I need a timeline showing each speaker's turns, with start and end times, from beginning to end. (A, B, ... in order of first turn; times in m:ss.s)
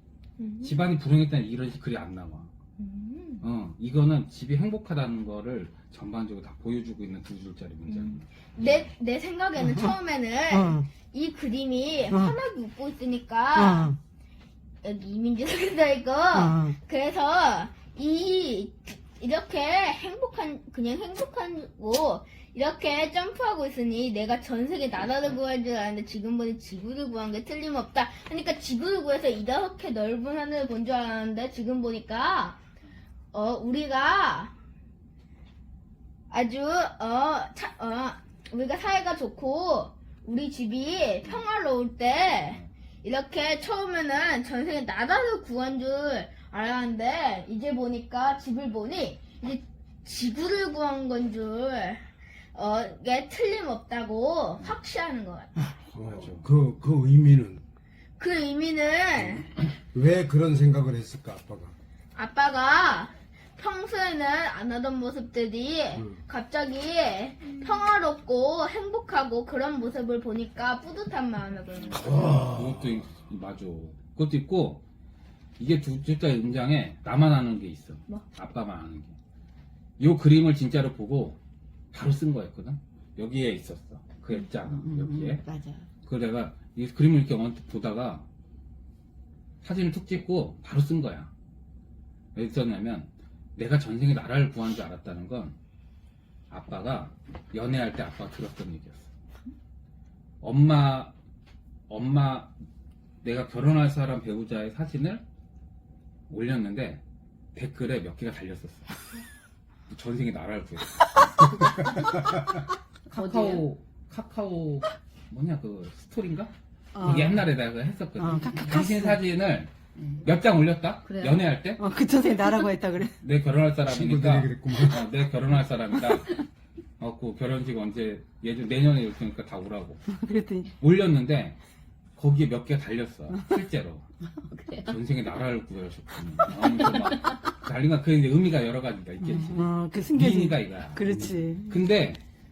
0:00.4-0:00.8 A
0:00.6-0:02.5 B
0:02.8-0:03.4 A
0:03.4-0:08.9 B
0:07.9-0:13.9 A
0:09.6-0:09.9 C
0:10.5-0:10.9 C
0:12.1-0:12.4 C
0:13.5-0:14.0 C
0:14.8-0:32.6 A
0:16.3-0:16.8 C
0:33.3-0:34.5 A
0:36.3-0:52.0 A
0:52.5-0:55.5 A
0:55.9-0:57.6 D
0:56.1-0:56.5 B
0:58.2-0:59.5 A
0:59.9-1:01.7 D
1:02.1-1:12.1 A
1:11.9-1:14.8 B
1:15.6-1:19.1 B
1:20.0-1:21.4 B
1:21.9-1:25.4 B
1:24.6-1:25.8 C
1:26.0-1:28.2 B
1:29.6-1:31.3 B
1:32.3-1:35.6 B
1:36.5-1:39.1 B
1:40.4-1:41.1 B
1:41.9-1:42.5 B
1:43.2-1:45.2 B
1:46.3-1:47.0 B
1:47.5-1:48.8 B
1:49.9-1:51.5 B
1:53.1-1:56.5 B
1:53.2-1:53.6 A
1:56.9-1:57.4 C
1:57.0-2:01.8 B
1:58.2-1:59.2 C
2:01.1-2:01.4 A
2:01.8-2:03.1 C
2:03.2-2:06.4 B
2:03.9-2:05.0 D
2:07.0-2:10.0 B
2:10.1-2:10.7 C
2:10.7-2:11.6 B
2:12.2-2:14.0 B
2:14.7-2:22.2 B
2:19.2-2:21.8 C